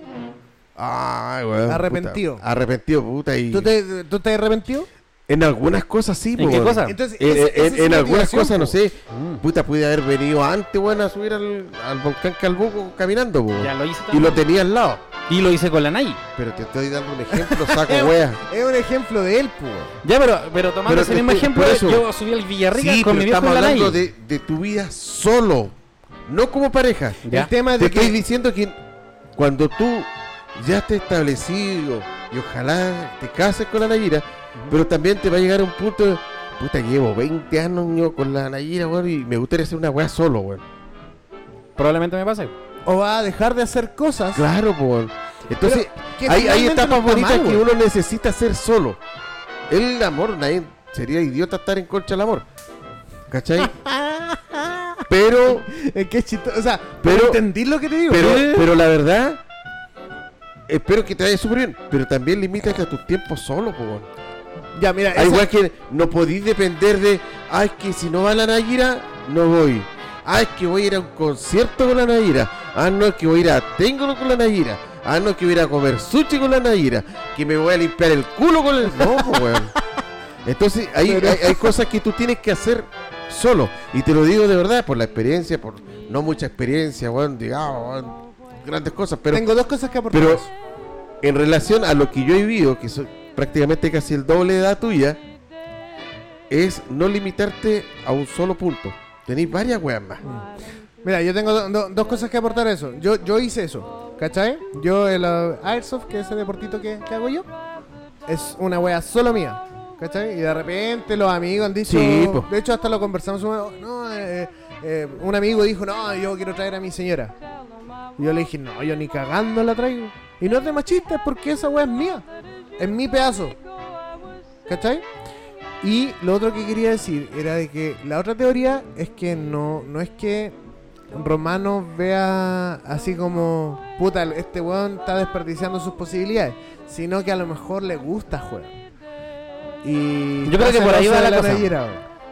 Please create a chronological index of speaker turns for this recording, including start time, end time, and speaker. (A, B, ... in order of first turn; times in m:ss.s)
0:00.8-0:03.7 A
0:01.7-0:02.4 B
0:03.5-0:04.9 B
0:05.3-0:15.0 A
0:06.4-0:07.0 C
0:06.8-0:08.8 B
0:09.1-0:09.4 C
0:13.6-0:14.4 C
0:15.3-0:16.2 C
0:16.4-0:18.4 A
0:17.3-0:19.9 B
0:20.0-0:24.0 C
0:20.9-0:22.1 A
0:22.7-0:25.7 A
0:26.3-0:28.8 A
0:27.2-0:27.5 C
0:27.3-0:28.2 B
0:29.4-0:40.6 A
0:41.8-0:42.5 C
0:42.8-0:44.5 B
0:44.3-0:49.0 A
0:45.6-0:47.6 B
0:49.7-0:52.4 A
0:53.3-0:53.7 A
0:53.6-0:55.0 B
0:55.1-0:55.7 A
0:55.6-0:58.6 B
0:57.0-0:57.4 A
0:58.1-0:59.4 A
1:00.7-1:04.1 A
1:04.8-1:05.5 B
1:05.1-1:19.7 A
1:19.0-1:19.5 B
1:20.4-1:29.5 A
1:21.1-1:21.7 B
1:29.3-1:30.5 B
1:30.1-1:30.5 A
1:31.2-1:35.2 A
1:36.5-1:40.2 A
1:41.0-1:47.5 B
1:48.2-1:57.4 B
1:51.8-1:52.5 A
1:58.2-2:02.2 B
2:02.8-2:03.6 B
2:04.6-2:05.1 B
2:05.8-2:10.6 B
2:11.1-2:18.8 B
2:19.8-2:22.1 B
2:20.4-2:21.7 C